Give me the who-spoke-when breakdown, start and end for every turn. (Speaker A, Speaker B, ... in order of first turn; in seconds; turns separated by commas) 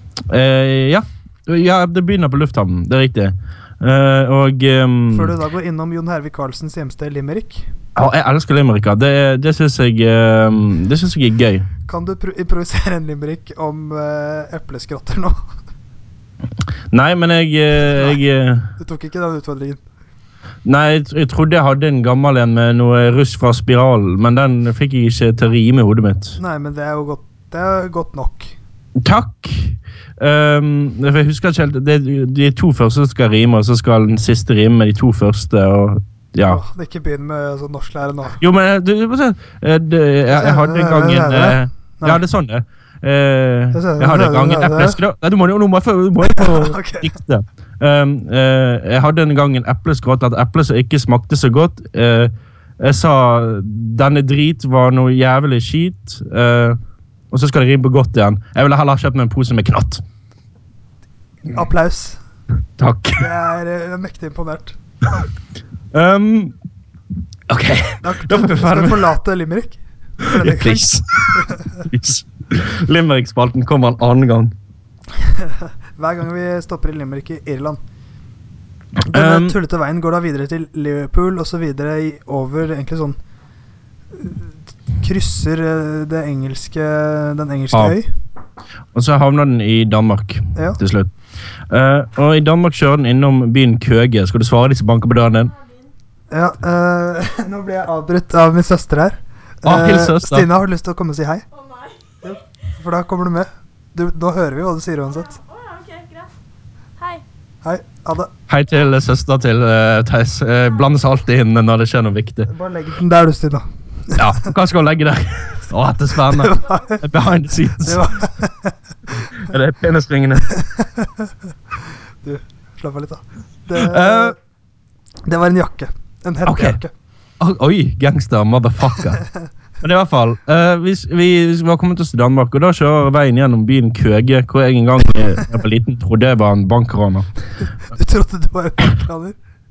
Speaker A: 0.3-5.3, Speaker B: 5.1-7.7, Speaker A: 8.0-11.7, Speaker B: 11.9-15.4, Speaker A: 16.9-18.7, Speaker B: 17.8-18.2, Speaker B: 18.8-19.8, Speaker A: 20.6-26.4, Speaker B: 26.4-28.6, Speaker A: 29.0-36.6, Speaker B: 36.5-38.4, Speaker A: 38.4-56.8, Speaker B: 40.3-42.2, Speaker B: 43.7-45.0, Speaker B: 46.2-47.1, Speaker A: 57.3-60.0, Speaker B: 61.5-62.2, Speaker A: 62.8-63.2, Speaker B: 63.2-64.8, Speaker A: 65.9-66.5, Speaker A: 67.5-69.1, Speaker B: 68.0-71.8, Speaker A: 70.2-74.5, Speaker B: 75.2-77.8, Speaker A: 79.1-79.6, Speaker B: 79.1-83.2, Speaker B: 84.2-88.1, Speaker A: 88.9-91.1, Speaker A: 91.7-95.5, Speaker C: 95.5-95.8, Speaker B: 96.3-101.5, Speaker A: 99.7-100.5, Speaker C: 101.5-102.3, Speaker B: 102.2-105.4, Speaker C: 105.1-106.3, Speaker C: 107.0-107.2, Speaker B: 107.6-108.3, Speaker A: 108.5-112.5, Speaker B: 112.5-114.5, Speaker A: 114.2-118.1, Speaker B: 116.3-117.0, Speaker B: 117.8-119.5, Speaker A: 119.4-120.5, Speaker B: 120.6-121.3, Speaker B: 122.2-124.4, Speaker A: 123.8-124.3, Speaker B: 125.3-126.9, Speaker A: 126.5-126.8, Speaker A: 127.4-129.2, Speaker A: 129.8-137.3, Speaker B: 137.9-139.4